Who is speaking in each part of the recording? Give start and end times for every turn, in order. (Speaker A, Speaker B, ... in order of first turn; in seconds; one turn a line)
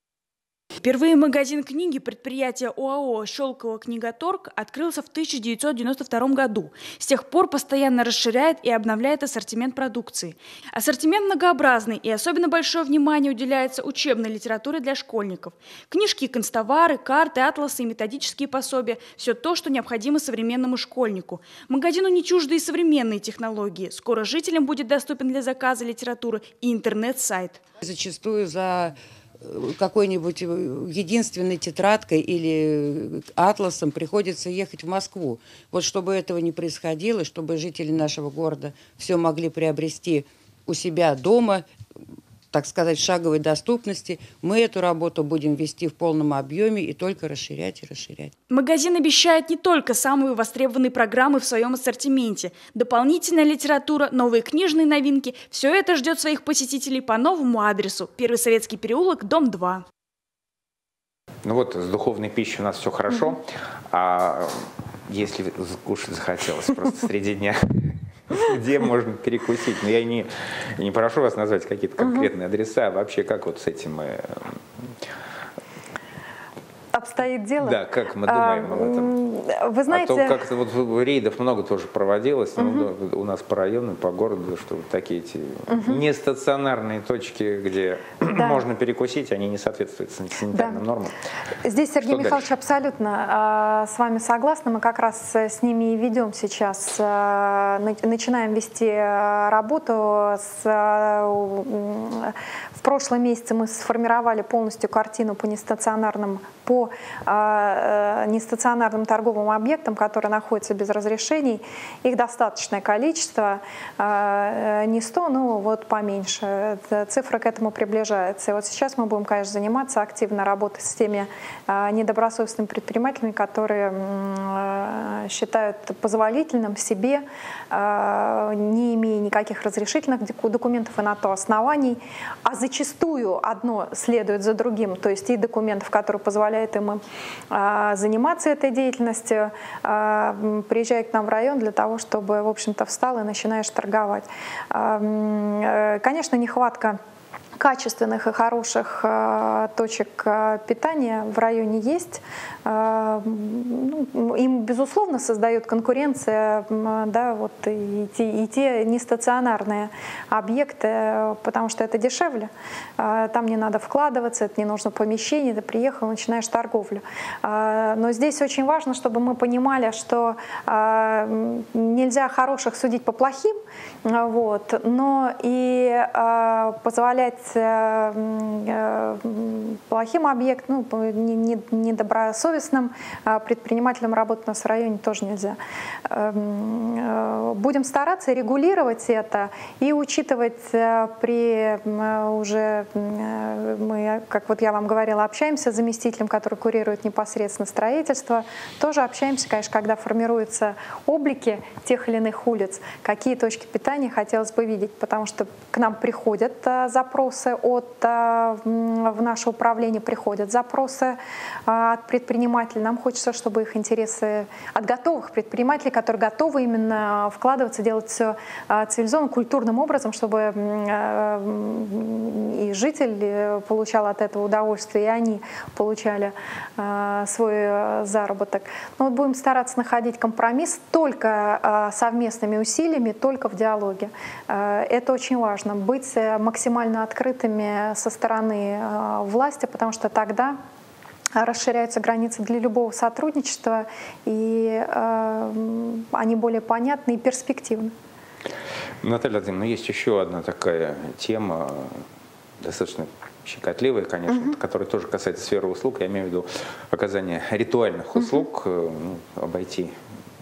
Speaker A: 0.8-27.6
Speaker B: 27.8-41.7
Speaker B: 42.5-48.3
Speaker A: 48.5-59.8
Speaker C: 61.4-74.6
Speaker D: 72.0-72.3
Speaker D: 76.9-80.4
Speaker C: 77.6-79.2
Speaker C: 79.9-91.1
Speaker D: 82.6-82.9
Speaker D: 85.7-86.0
Speaker D: 88.3-88.6
Speaker D: 90.5-90.8
Speaker D: 91.6-147.0
Speaker C: 92.0-92.5
Speaker D: 147.6-173.5
Speaker D: 174.0-185.6
Speaker D: 186.1-240.6
Speaker D: 241.4-247.9
Speaker C: 249.0-252.0
Speaker C: 252.6-259.9
Speaker D: 254.3-254.5